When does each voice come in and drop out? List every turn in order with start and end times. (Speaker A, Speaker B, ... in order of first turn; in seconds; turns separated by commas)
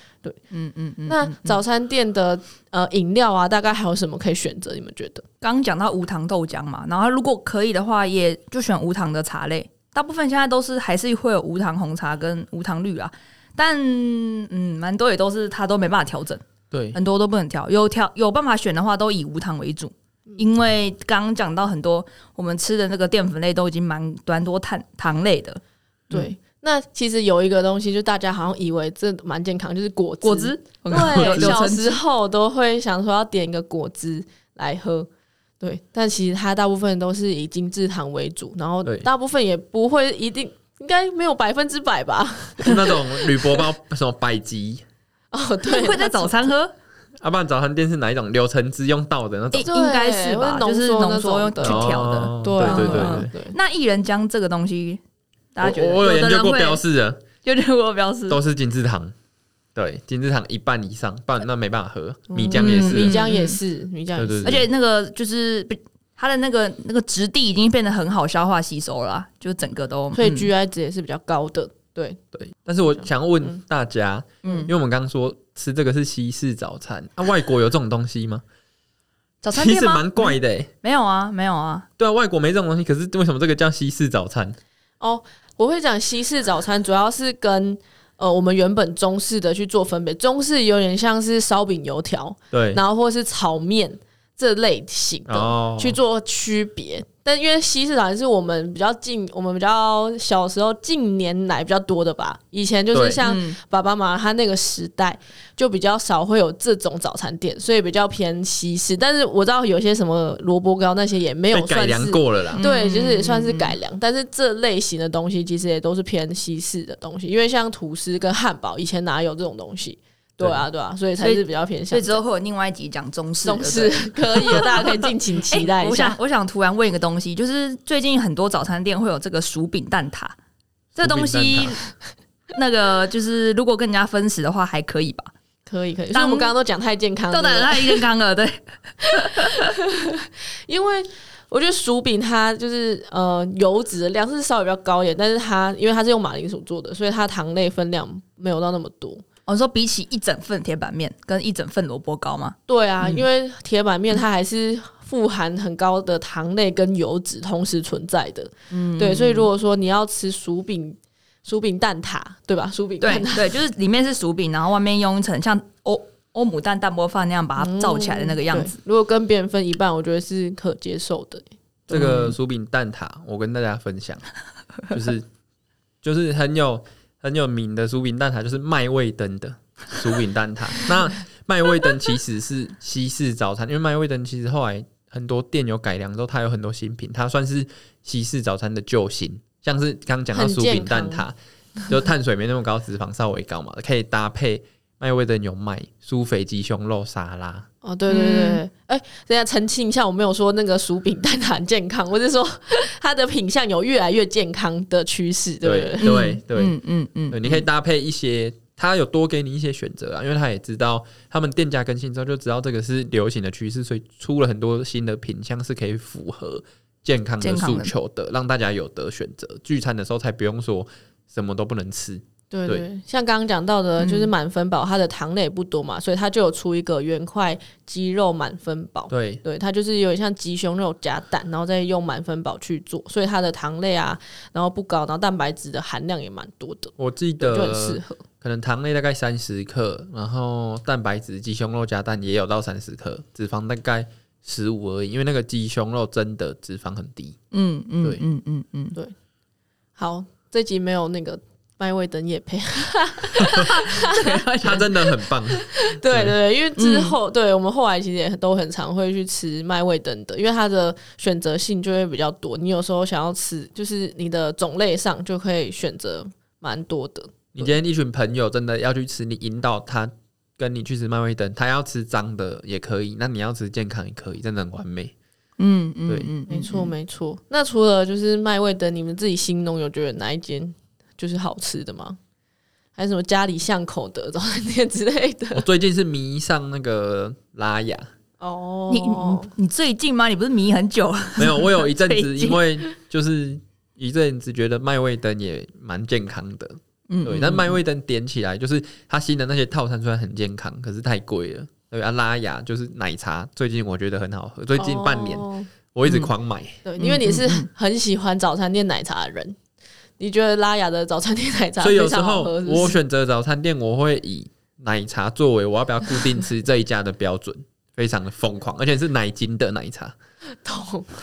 Speaker A: 0.5-1.6, Speaker B: 1.1-5.2, Speaker A: 5.4-26.3, Speaker C: 16.7-17.0, Speaker B: 26.1-35.1, Speaker A: 30.2-32.0, Speaker C: 30.9-31.6, Speaker B: 35.6-43.6, Speaker C: 42.6-44.8, Speaker B: 45.3-46.5, Speaker A: 45.7-46.7, Speaker C: 47.2-49.7, Speaker A: 49.5-55.0, Speaker B: 49.6-53.6, Speaker C: 51.6-53.3, Speaker A: 55.5-56.8, Speaker C: 55.6-57.2, Speaker A: 57.4-58.4, Speaker C: 58.3-59.1, Speaker C: 59.8-63.1, Speaker A: 62.5-63.6, Speaker B: 62.5-64.6, Speaker C: 64.2-64.7, Speaker A: 64.4-70.5, Speaker B: 70.1-72.2, Speaker C: 72.3-78.4, Speaker B: 73.0-73.6, Speaker A: 74.4-74.7, Speaker A: 79.4-81.9, Speaker C: 79.5-80.7, Speaker C: 82.0-84.6, Speaker B: 85.0-122.2, Speaker C: 92.5-92.8, Speaker C: 95.3-96.0, Speaker C: 102.9-103.2, Speaker A: 103.2-103.6, Speaker C: 111.5-112.6, Speaker A: 112.5-113.8, Speaker A: 121.2-130.4, Speaker B: 123.4-126.2, Speaker A: 131.0-131.8, Speaker C: 131.0-131.8, Speaker A: 132.5-135.3, Speaker B: 135.7-138.0, Speaker A: 136.1-136.5, Speaker A: 137.3-139.7, Speaker B: 139.5-149.2, Speaker A: 149.5-153.2, Speaker B: 152.7-163.6, Speaker A: 158.7-159.5, Speaker A: 163.0-168.8, Speaker B: 167.6-172.1, Speaker C: 171.9-174.2, Speaker A: 171.9-172.4, Speaker C: 174.9-175.3, Speaker C: 176.0-191.4, Speaker B: 190.3-191.3, Speaker C: 191.9-197.7, Speaker B: 197.8-206.2, Speaker A: 198.1-198.6, Speaker C: 205.6-206.8, Speaker A: 206.0-207.7, Speaker C: 207.3-222.8, Speaker A: 217.4-217.9, Speaker B: 222.5-238.2, Speaker A: 224.0-224.3, Speaker C: 229.1-229.4, Speaker C: 237.0-247.4, Speaker A: 247.5-249.0, Speaker B: 250.0-254.5, Speaker A: 253.4-255.1, Speaker C: 254.6-256.4, Speaker B: 255.5-267.7, Speaker A: 256.8-257.2, Speaker C: 267.6-275.1, Speaker A: 275.6-276.9, Speaker B: 276.5-282.2, Speaker B: 283.0-285.6, Speaker C: 285.6-288.1, Speaker B: 288.4-289.5, Speaker A: 288.9-292.6, Speaker C: 291.4-306.8, Speaker A: 297.1-297.8, Speaker B: 304.8-305.7, Speaker B: 306.8-309.6, Speaker A: 307.0-307.7, Speaker B: 310.2-313.0, Speaker C: 311.8-320.1, Speaker B: 320.6-321.1